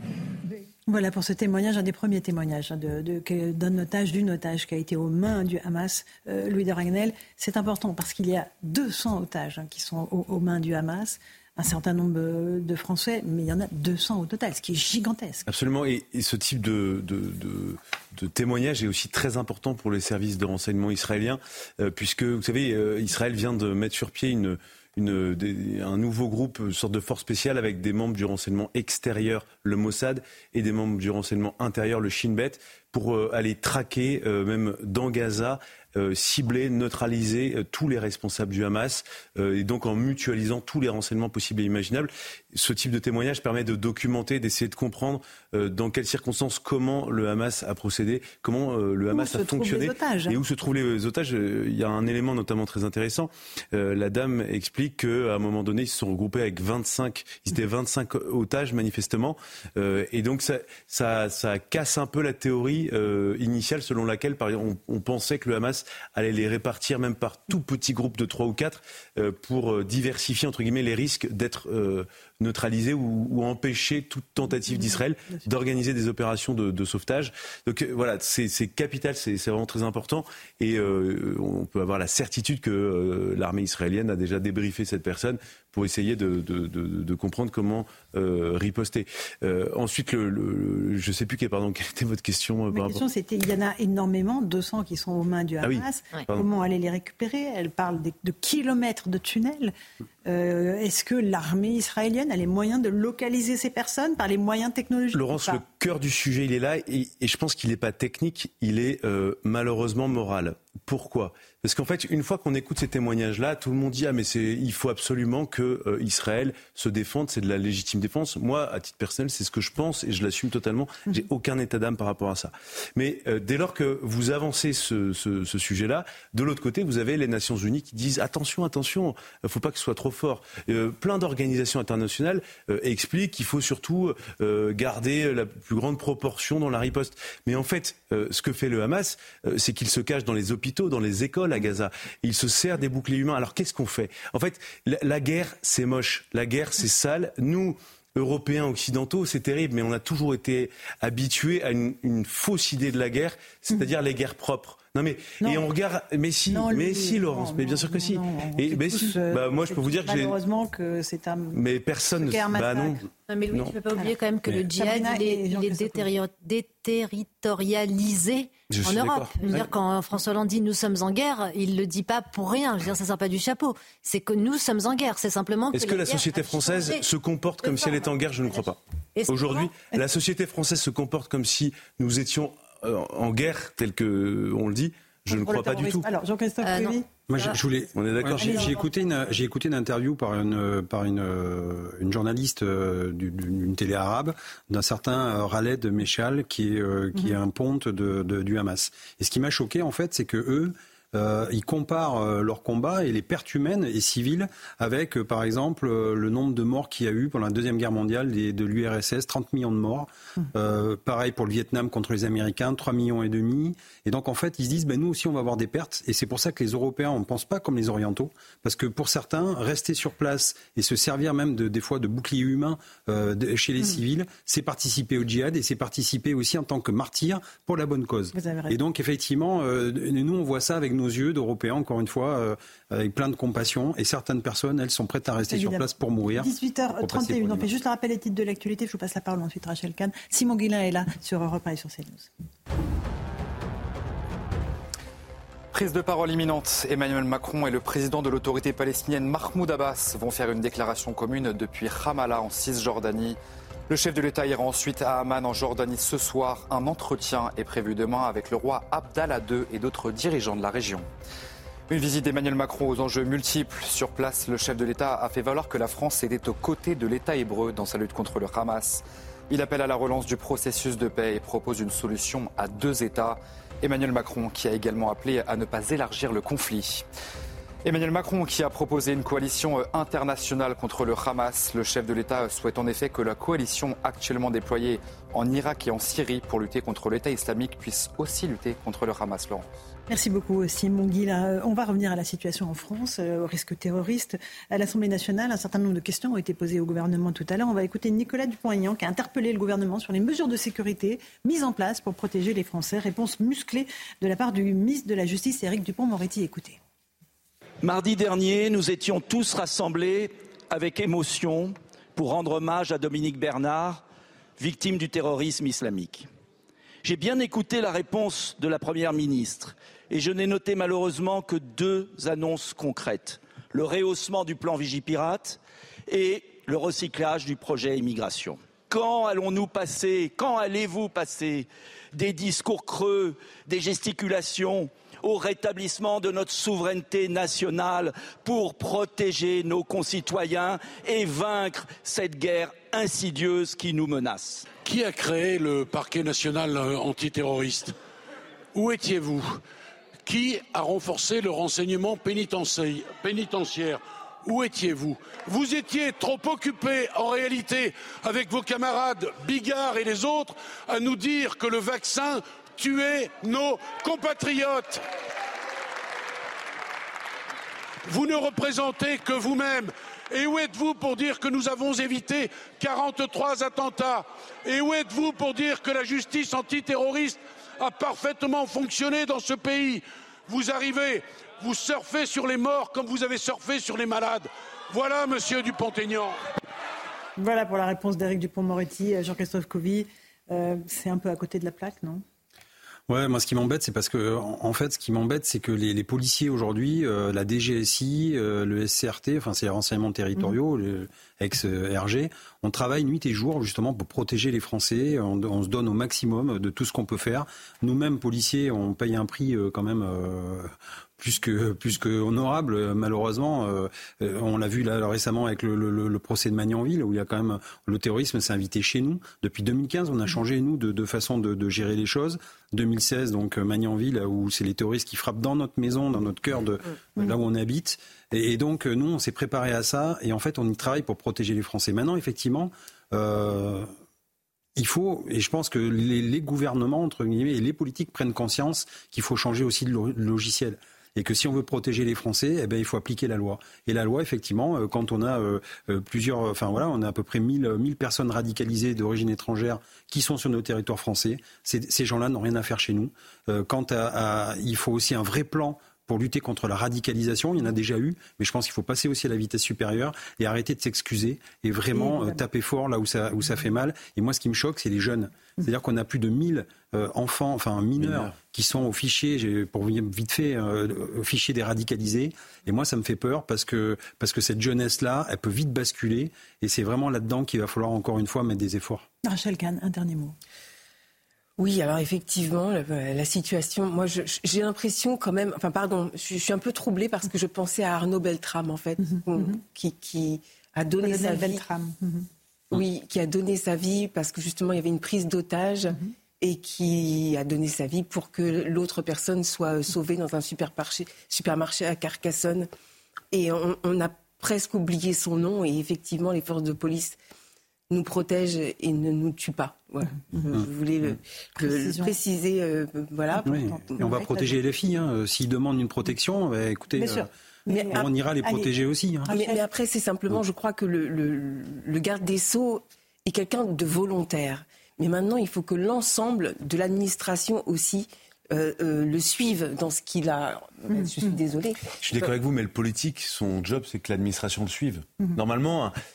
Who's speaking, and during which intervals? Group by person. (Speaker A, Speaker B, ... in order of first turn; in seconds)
Speaker A: 0.9-15.4, 49.1-50.4, 74.7-75.0, 92.7-105.6, 156.5-161.6, 162.1-163.0, 164.7-166.1, 185.3-187.1, 188.4-188.8, 228.3-228.8, 235.5-242.3, 290.1-306.8, 387.4-392.2, 461.9-462.4, 479.2-480.4, 489.1-489.6, 491.0-492.3, 511.6-512.1, 513.4-514.6, 516.9-519.7, 530.9-531.3
Speaker B: 15.4-93.0, 95.6-96.5, 105.1-160.3, 161.5-163.8, 168.7-169.7, 175.7-186.0, 187.9-188.6, 532.0-535.9
Speaker C: 163.3-177.0, 177.6-178.6, 179.2-179.7, 186.6-187.6, 188.4-189.3
Speaker D: 187.3-237.7, 393.1-433.9, 434.8-479.1, 510.5-511.1, 513.4-519.3
Speaker E: 245.7-253.4, 253.9-261.1, 261.9-277.1, 277.8-289.7
Speaker F: 307.8-314.0, 314.6-316.3, 317.0-344.7
Speaker G: 344.8-347.9, 348.7-349.6, 350.2-365.0, 368.0-386.4
Speaker H: 481.6-491.6, 492.7-502.7, 503.3-507.2, 507.9-514.2, 519.3-532.1